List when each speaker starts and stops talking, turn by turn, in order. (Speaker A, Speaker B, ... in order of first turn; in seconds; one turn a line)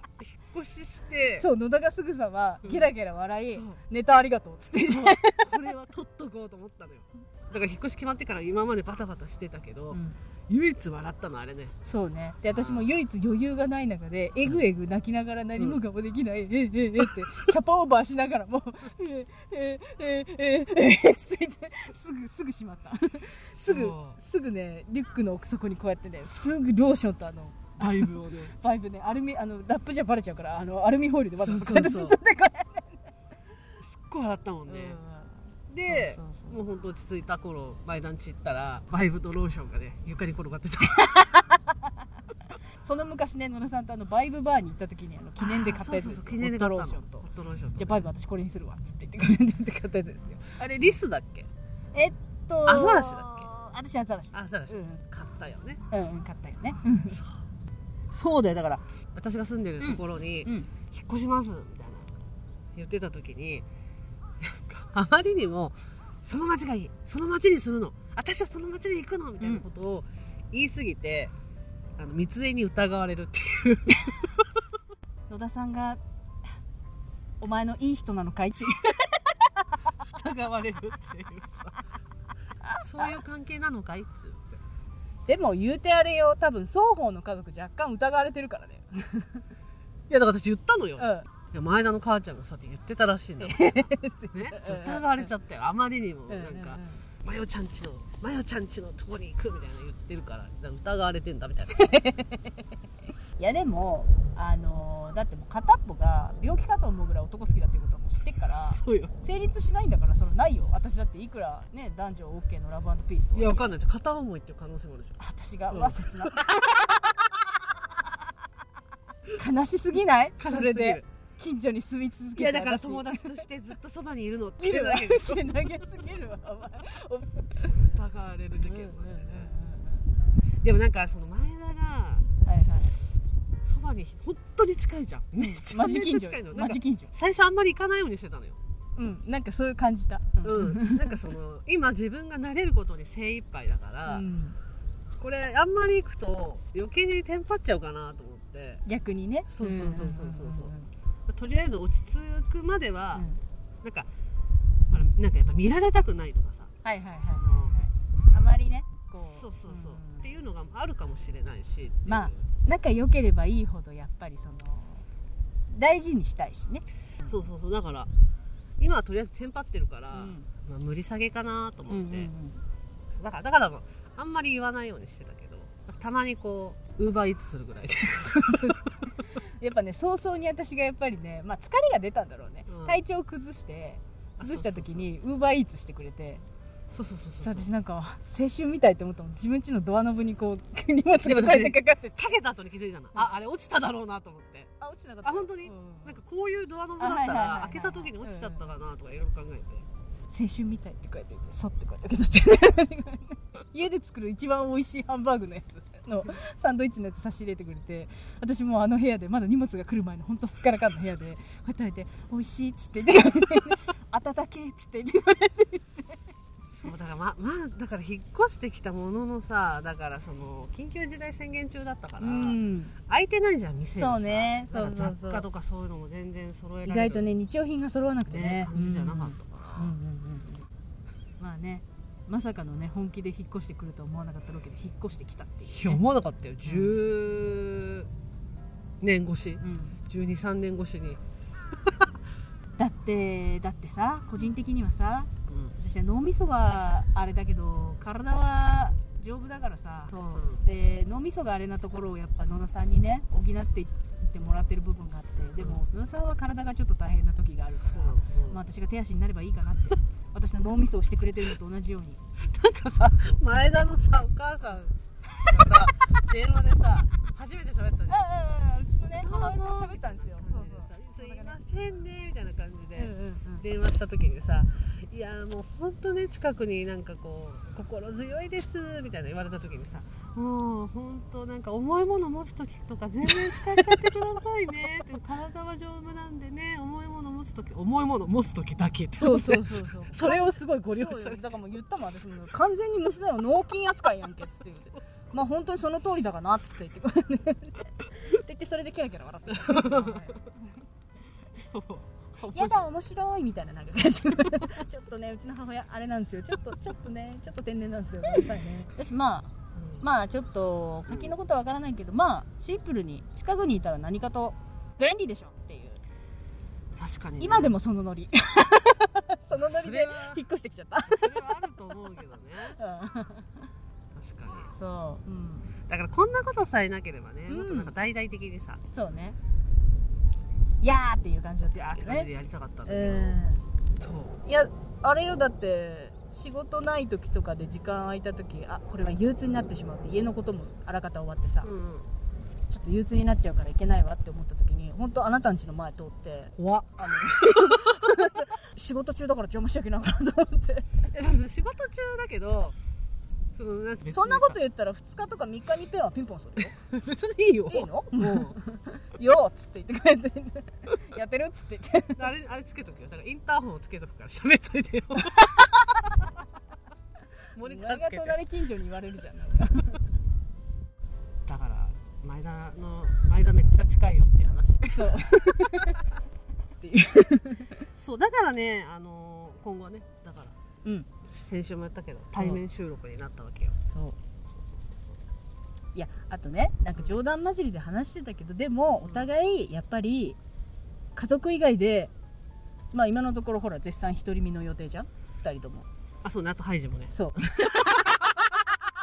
Speaker A: 0.2-1.5
Speaker B: 1.4-5.5
Speaker A: 2.6-2.9
Speaker A: 3.5-3.8
Speaker A: 4.9-11.8
Speaker B: 9.9-10.2
Speaker B: 11.8-33.1
Speaker A: 12.5-12.9
Speaker A: 23.6-24.2
Speaker A: 27.8-28.6
Speaker A: 31.4-32.2
Speaker A: 33.8-35.0
Speaker B: 34.7-36.6
Speaker A: 35.7-41.1
Speaker B: 41.0-41.8
Speaker B: 42.8-51.0
Speaker A: 45.4-48.1
Speaker A: 50.6-51.5
Speaker B: 51.9-55.0
Speaker A: 52.7-53.5
Speaker A: 54.3-55.8
Speaker B: 55.9-57.2
Speaker A: 57.1-57.4
Speaker A: 58.1-62.1
Speaker B: 59.8-60.7
Speaker A: 62.8-63.7
Speaker A: 64.4-71.3
Speaker A: 72.0-74.2
Speaker B: 75.3-76.0
Speaker B: 77.4-79.3
Speaker A: 80.0-81.8
Speaker B: 82.7-83.1
Speaker A: 82.8-84.6
Speaker B: 85.3-89.4
Speaker A: 90.1-101.8
Speaker B: 91.0-91.3
Speaker B: 93.4-95.3
Speaker B: 96.3-97.0
Speaker B: 101.7-102.7
Speaker B: 103.4-113.8
Speaker A: 108.7-109.2
Speaker A: 113.3-116.7
Speaker B: 115.2-116.7
Speaker B: 119.4-123.4
Speaker A: 120.4-121.1
Speaker A: 122.3-125.5
Speaker B: 124.6-127.7
Speaker A: 127.6-129.5
Speaker B: 128.6-130.1
Speaker A: 130.6-132.3
Speaker B: 132.4-132.9
Speaker A: 133.6-138.6
Speaker B: 135.4-137.1
Speaker B: 139.0-141.2
Speaker A: 140.4-144.3
Speaker B: 144.1-144.6
Speaker A: 145.2-148.8
Speaker B: 148.8-150.9
Speaker A: 149.5-150.7
Speaker A: 151.3-153.3
Speaker B: 153.1-153.4
Speaker A: 153.8-154.1
Speaker A: 154.9-157.8
Speaker B: 156.8-160.3
Speaker A: 159.2-162.5
Speaker B: 162.1-165.1
Speaker B: 165.7-167.3
Speaker A: 167.2-168.1
Speaker A: 168.8-172.3
Speaker B: 170.1-170.5
Speaker B: 171.9-172.6
Speaker A: 173.1-178.9
Speaker B: 178.1-178.8
Speaker B: 179.4-186.4
Speaker A: 182.7-183.0
Speaker A: 184.4-185.1
Speaker A: 186.9-187.7
Speaker B: 187.4-192.3
Speaker A: 191.2-194.7
Speaker B: 194.8-196.2
Speaker A: 195.2-199.9
Speaker B: 197.0-198.7
Speaker B: 200.3-216.2
Speaker A: 216.7-227.3
Speaker B: 222.2-223.0
Speaker B: 223.9-225.5
Speaker B: 226.8-230.7
Speaker A: 228.3-230.0
Speaker B: 231.4-236.0
Speaker A: 235.7-238.1
Speaker B: 236.7-237.0
Speaker A: 239.0-241.2
Speaker B: 239.6-240.0
Speaker B: 242.8-262.2
Speaker A: 245.5-245.8
Speaker A: 250.3-250.6
Speaker A: 255.6-255.8
Speaker A: 257.9-258.6
Speaker A: 262.4-264.9
Speaker B: 265.5-265.8
Speaker A: 265.5-268.2
Speaker B: 268.1-271.6
Speaker A: 269.1-291.6
Speaker B: 273.0-273.6
Speaker B: 283.4-283.8
Speaker B: 289.2-300.5
Speaker A: 299.5-300.4
Speaker A: 301.5-302.9
Speaker B: 302.5-309.5
Speaker A: 309.7-310.1
Speaker B: 310.0-316.0
Speaker A: 311.1-311.4
Speaker A: 317.0-317.8
Speaker B: 317.4-321.3
Speaker A: 319.5-320.4
Speaker A: 321.1-322.8
Speaker B: 322.8-323.5
Speaker A: 324.1-324.7
Speaker B: 324.7-325.7
Speaker A: 325.9-328.8
Speaker B: 327.5-327.9
Speaker B: 328.9-329.4
Speaker B: 330.8-332.3
Speaker A: 331.7-333.4
Speaker B: 332.9-333.6
Speaker A: 334.0-334.4
Speaker B: 334.5-341.7
Speaker A: 341.6-342.1
Speaker B: 342.7-351.1
Speaker A: 346.6-348.1
Speaker A: 351.1-352.8
Speaker A: 353.5-354.6
Speaker B: 354.1-356.8
Speaker A: 356.6-358.6
Speaker B: 357.7-362.3
Speaker A: 362.2-365.6
Speaker B: 365.2-365.7
Speaker A: 367.6-368.4
Speaker B: 367.6-370.0
Speaker A: 371.5-375.2
Speaker B: 374.9-376.0
Speaker B: 376.8-377.9
Speaker A: 377.9-380.6
Speaker A: 381.2-383.8
Speaker B: 382.3-382.6
Speaker B: 383.9-384.2
Speaker A: 384.6-385.2
Speaker B: 385.9-390.4
Speaker A: 389.0-389.3
Speaker B: 391.1-392.1
Speaker B: 392.9-395.9
Speaker A: 396.2-397.1
Speaker B: 397.1-398.2